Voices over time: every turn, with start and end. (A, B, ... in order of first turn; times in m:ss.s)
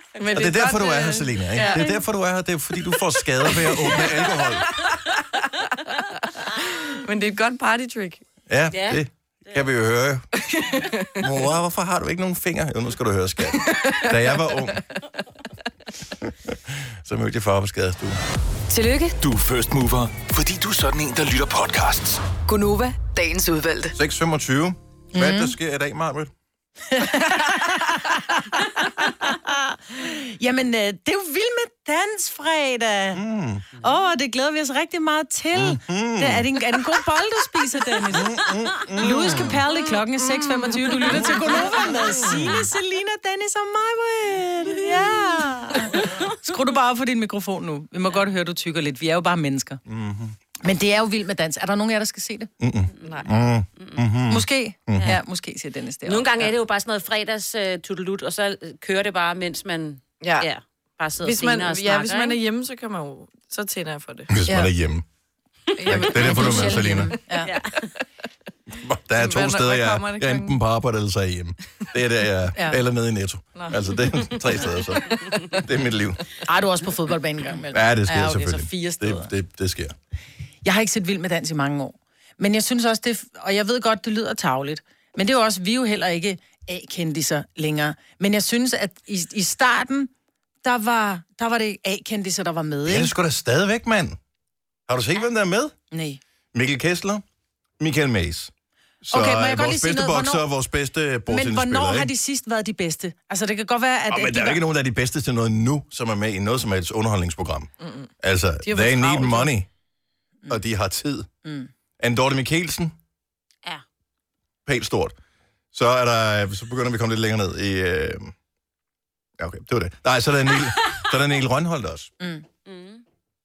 0:00.2-0:01.9 A
0:00.3-0:04.7 B
0:01.5-0:02.0 C
0:03.6-0:04.6 A
0:06.9-0:08.2 A
0:08.5-0:10.3 B
0:08.7-0:09.6 C
0:10.4-0:11.3 A
0:11.2-0:14.8 B
0:13.7-0:14.4 A
0:16.2-0:18.2 B
0:18.7-0:19.2 D
0:19.2-0:22.2 E
0:22.4-0:24.0 D
0:23.9-0:26.3 B
0:25.1-0:25.5 F
0:26.9-0:33.2 F
0:33.1-0:33.6 B
0:33.8-0:49.8 F
0:35.5-0:36.5 B
0:38.1-0:39.6 B
0:49.9-0:50.4 B
0:50.6-0:52.5 F
0:52.6-0:55.1 B
0:53.0-0:54.0 C
0:53.0-0:53.3 A
0:54.3-0:56.5 F
0:56.0-1:02.4 C
1:00.2-1:00.5 A
1:01.2-1:04.7 A
1:04.3-1:05.0 B
1:05.8-1:07.2 A
1:05.9-1:07.1 B
1:05.9-1:07.9 C
1:06.2-1:07.5 F
1:08.7-1:16.2 B
1:09.2-1:10.6 A
1:13.5-1:14.0 A
1:15.2-1:15.6 A
1:16.4-1:19.3 F
1:17.7-1:19.9 B
1:20.6-1:30.1 F
1:30.6-1:33.1 F
1:32.8-1:34.2 B
1:34.9-1:35.7 B
1:35.9-1:36.2 F
1:36.5-1:37.2 B
1:37.8-1:38.5 B
1:39.0-1:42.1 B
1:39.1-1:40.4 F
1:41.3-1:44.6 F
1:44.1-1:49.7 B
1:47.8-1:48.1 A
1:48.6-1:49.5 A
1:50.5-1:51.3 B
1:51.4-1:51.7 F
1:52.0-1:52.9 B
1:54.6-1:55.1 B
1:55.7-1:58.3 B
1:59.4-2:02.1 B
2:02.2-2:02.4 F
2:02.6-2:03.0 C